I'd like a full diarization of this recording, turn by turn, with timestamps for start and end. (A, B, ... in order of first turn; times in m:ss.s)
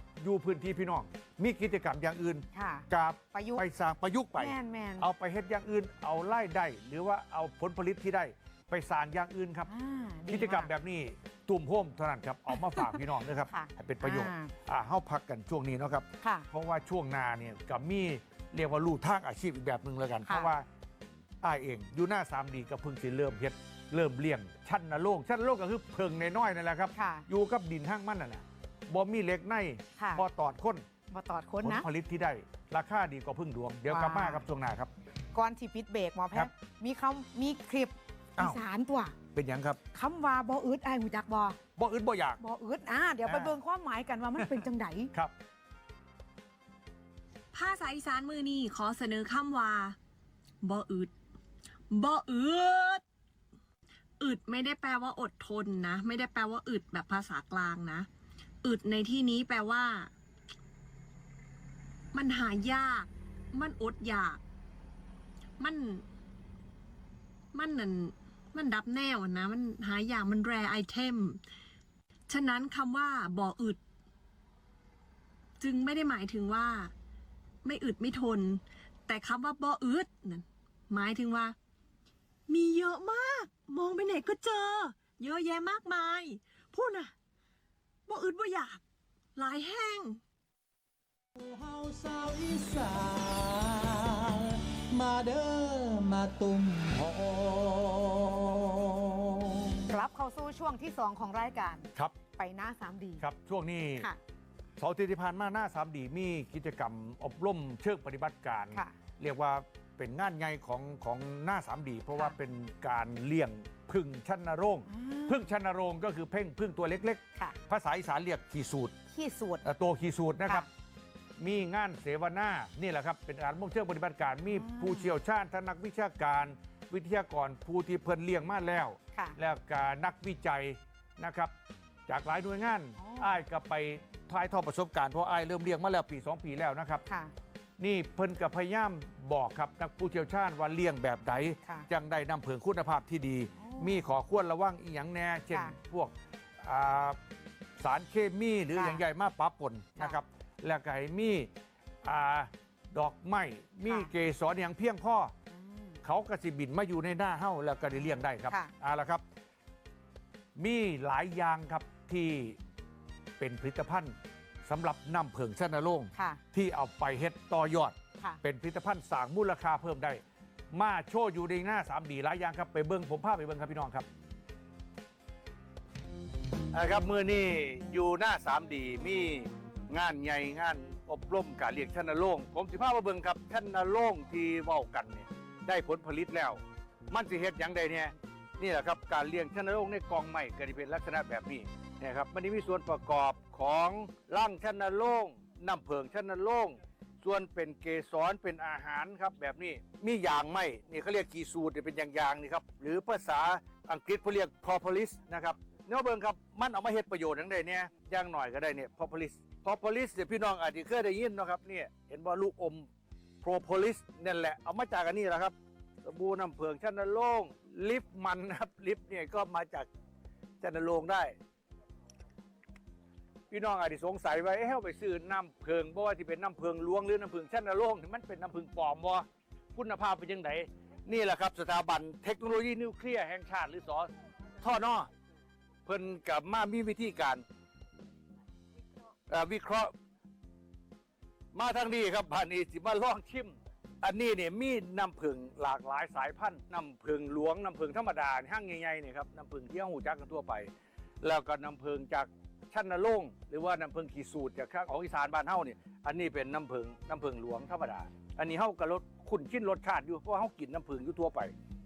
0:00.2-0:09.7 A
0:02.5-0:03.6 B
0:04.4-0:05.1 B
0:09.7-0:10.7 B
0:10.3-0:20.6 A
0:12.6-0:13.0 B
0:13.5-0:14.5 B
0:16.2-0:16.5 B
0:20.3-0:20.5 B
0:21.4-0:30.8 A
0:27.0-0:27.3 B
0:30.0-0:30.2 B
0:31.1-0:31.9 B
0:31.6-0:34.9 A
0:33.9-0:34.4 B
0:35.4-0:39.2 B
0:39.3-0:39.8 A
0:39.9-0:41.6 B
0:41.8-0:42.4 A
0:42.4-0:45.1 B
0:43.2-0:43.5 A
0:47.5-0:50.0 C
0:50.6-0:51.1 C
0:51.9-0:53.0 C
0:54.2-0:58.1 C
0:58.6-1:00.1 C
1:02.1-1:04.4 C
1:05.6-1:06.0 C
1:07.5-1:11.4 C
1:12.3-1:13.8 C
1:15.6-1:16.9 C
1:17.6-1:21.6 C
1:22.5-1:27.1 C
1:28.1-1:28.8 C
1:29.4-1:30.2 C
1:31.4-1:39.8 D
1:39.9-1:43.2 B
1:43.2-1:44.1 A
1:44.8-1:59.0 A
1:54.9-1:55.5 B
1:59.1-1:59.6 B
1:59.6-2:00.7 A
2:01.4-2:11.5 A
2:04.5-2:05.1 B
2:12.1-2:17.0 A
2:13.0-2:13.3 B
2:17.1-2:17.3 B
2:17.8-2:27.2 A
2:23.6-2:24.0 B
2:27.8-2:31.5 A
2:28.8-2:29.0 B
2:32.0-2:35.3 A
2:35.5-2:36.0 B
2:36.0-2:39.2 A
2:40.6-2:42.6 A
2:43.4-2:44.2 A
2:44.7-2:54.1 A
2:46.2-2:46.4 B
2:56.7-3:32.9 A
3:33.4-3:35.5 A
3:36.0-3:39.9 A
3:40.6-3:41.4 A
3:43.5-3:54.1 A
3:54.6-3:55.1 A
3:55.9-3:57.4 A
3:59.3-3:59.9 A
4:01.5-4:10.7 A
4:11.2-4:21.5 A